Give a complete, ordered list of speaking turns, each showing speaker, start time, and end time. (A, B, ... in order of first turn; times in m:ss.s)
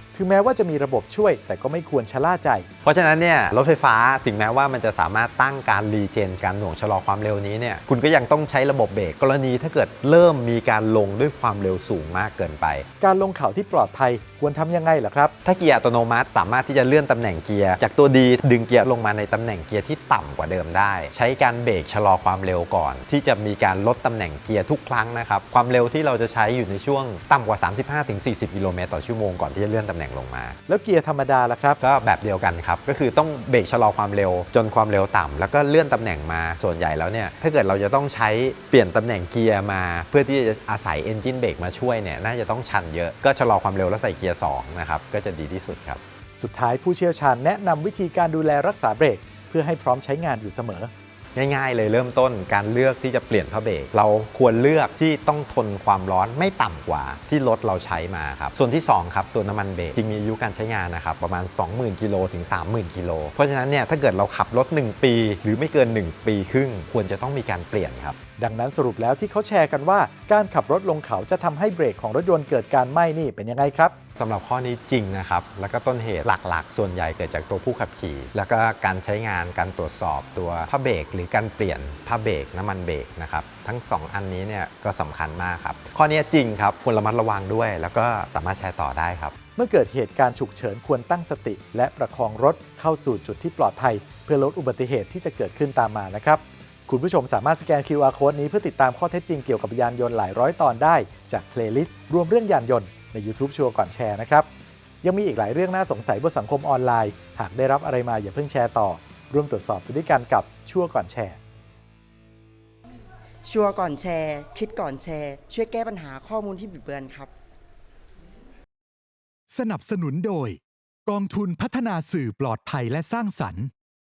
0:00.1-0:02.7 A
0:02.8-0:12.8 B
0:13.0-0:15.3 A
0:15.4-0:30.6 B
0:30.7-0:31.8 A
0:31.8-0:46.0 B
0:46.4-0:50.9 A
0:51.3-1:08.2 B
1:08.4-1:13.9 A
1:14.2-1:29.3 B
1:29.6-1:44.5 A
1:45.0-1:51.4 A
1:53.4-1:57.3 C
1:59.6-2:00.6 D
2:01.1-2:03.7 D